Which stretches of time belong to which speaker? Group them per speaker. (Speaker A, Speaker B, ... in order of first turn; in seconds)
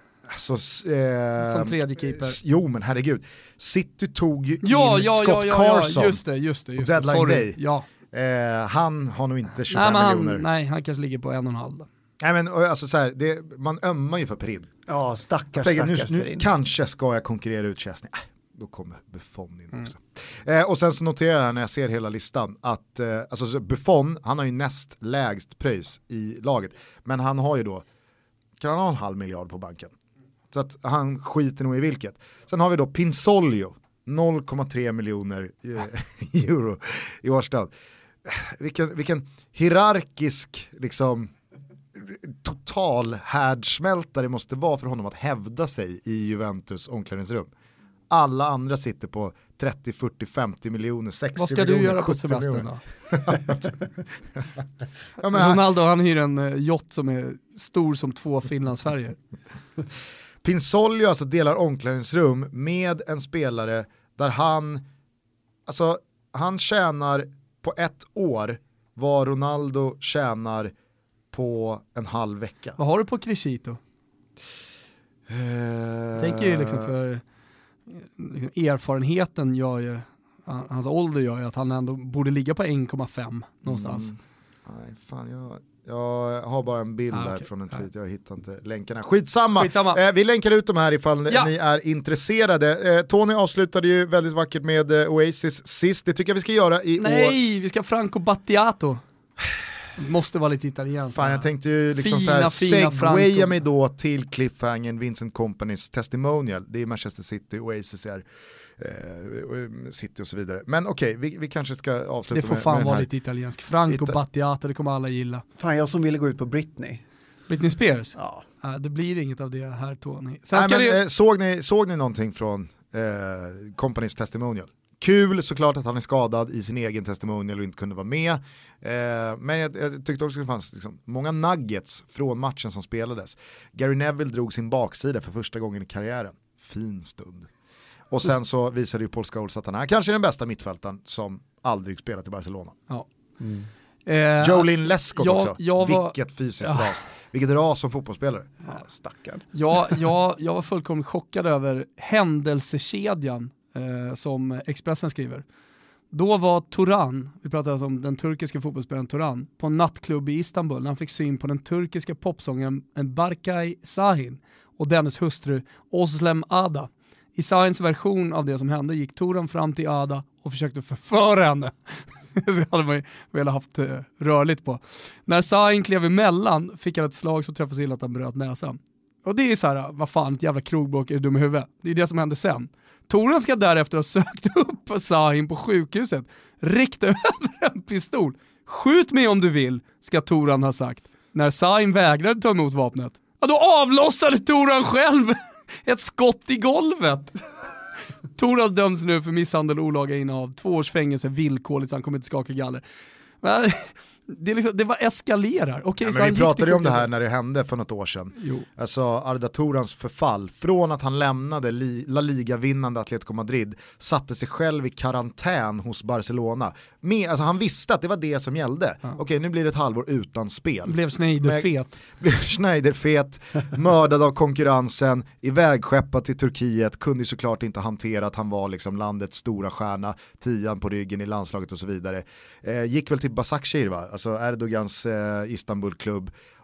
Speaker A: 0.3-6.2, 6.8-7.6, 8.1-10.4, 12.2-14.7, 15.6-27.8, 28.6-29.9, 30.5-37.7, 38.2-41.3, 41.9-47.5, 48.1-53.9, 55.2-55.6, 60.4-64.8, 65.7-70.7, 71.3-72.8, 75.3-76.9, 83.6-97.4, 101.1-108.2, 108.8-113.1, 113.9-114.2, 120.5-137.5, 138.1-142.8, 144.4-148.5, 206.0-236.3
Speaker B: 1.4-2.4, 4.6-7.8, 9.7-11.9, 51.4-52.8, 55.3-59.2, 72.8-73.8, 76.2-77.2, 77.9-84.1, 87.1-87.8, 89.6-90.0, 97.0-99.0, 100.0-101.5, 102.0-103.5, 112.3-115.4, 117.5-121.0, 144.1-146.9, 149.5-155.4, 156.1-197.4, 198.3-202.8, 203.4-207.1, 208.4-208.7, 220.8-222.0
Speaker C: 14.9-16.5, 115.6-117.0, 118.2-118.4, 143.4-143.7, 148.7-149.9